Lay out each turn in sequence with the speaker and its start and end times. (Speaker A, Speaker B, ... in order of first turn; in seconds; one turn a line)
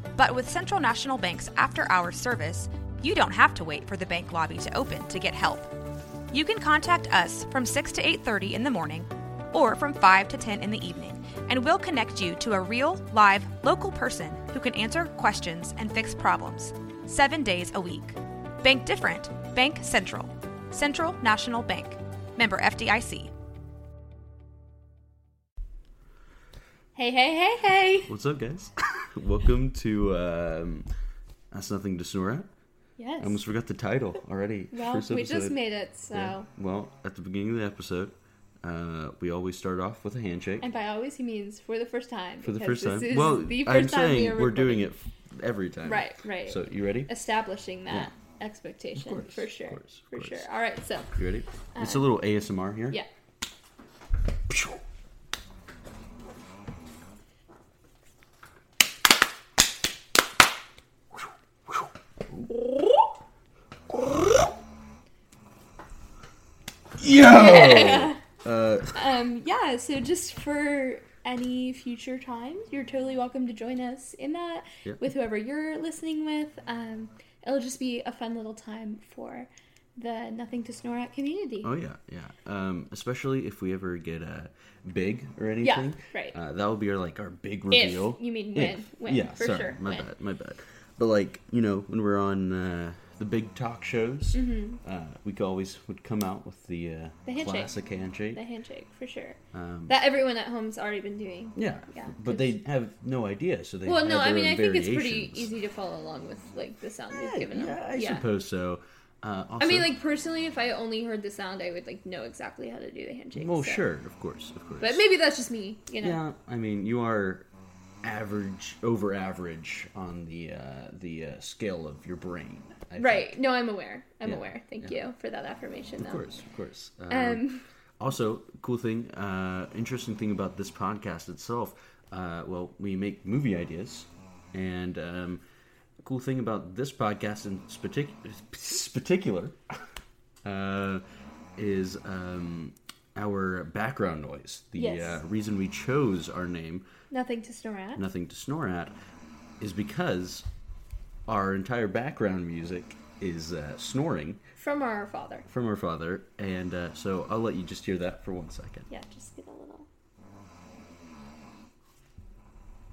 Speaker A: 0.2-5.7
Speaker A: 6.3-23.3
Speaker B: 27.0-28.1
Speaker C: 28.1-30.9
Speaker C: 31.5-32.5
Speaker B: 33.0-33.4
Speaker C: 33.2-35.6
Speaker B: 34.7-36.5
Speaker C: 36.1-40.7
Speaker B: 40.6-44.9
Speaker C: 42.4-47.1
Speaker B: 45.9-51.1
Speaker C: 48.9-50.5
Speaker C: 51.1-53.0
Speaker B: 51.7-52.0
Speaker C: 54.5-54.8
Speaker C: 61.7-62.9
Speaker C: 63.9-64.5
Speaker C: 67.0-69.0
Speaker B: 67.1-68.2
Speaker B: 68.9-81.7
Speaker C: 81.6-98.4
Speaker B: 85.6-86.4
Speaker B: 87.7-90.1
Speaker B: 94.3-94.8
Speaker B: 97.3-97.7
Speaker B: 98.3-99.4
Speaker C: 99.5-100.0
Speaker B: 99.9-102.5
Speaker C: 101.5-105.5
Speaker B: 103.8-108.2
Speaker C: 107.1-109.9
Speaker B: 109.6-113.8
Speaker C: 113.3-115.0
Speaker B: 114.8-116.2
Speaker C: 116.0-117.5
Speaker C: 118.0-123.4
Speaker B: 123.0-126.2
Speaker C: 124.2-125.0
Speaker C: 126.0-127.5
Speaker B: 127.1-127.7
Speaker C: 128.0-135.4
Speaker C: 136.0-139.6
Speaker C: 140.4-141.0
Speaker C: 141.6-146.9
Speaker B: 144.8-145.2
Speaker B: 147.1-148.1
Speaker C: 148.0-148.9
Speaker C: 149.6-150.5
Speaker C: 151.3-154.4
Speaker B: 154.6-155.5
Speaker C: 155.5-158.9
Speaker B: 158.9-159.9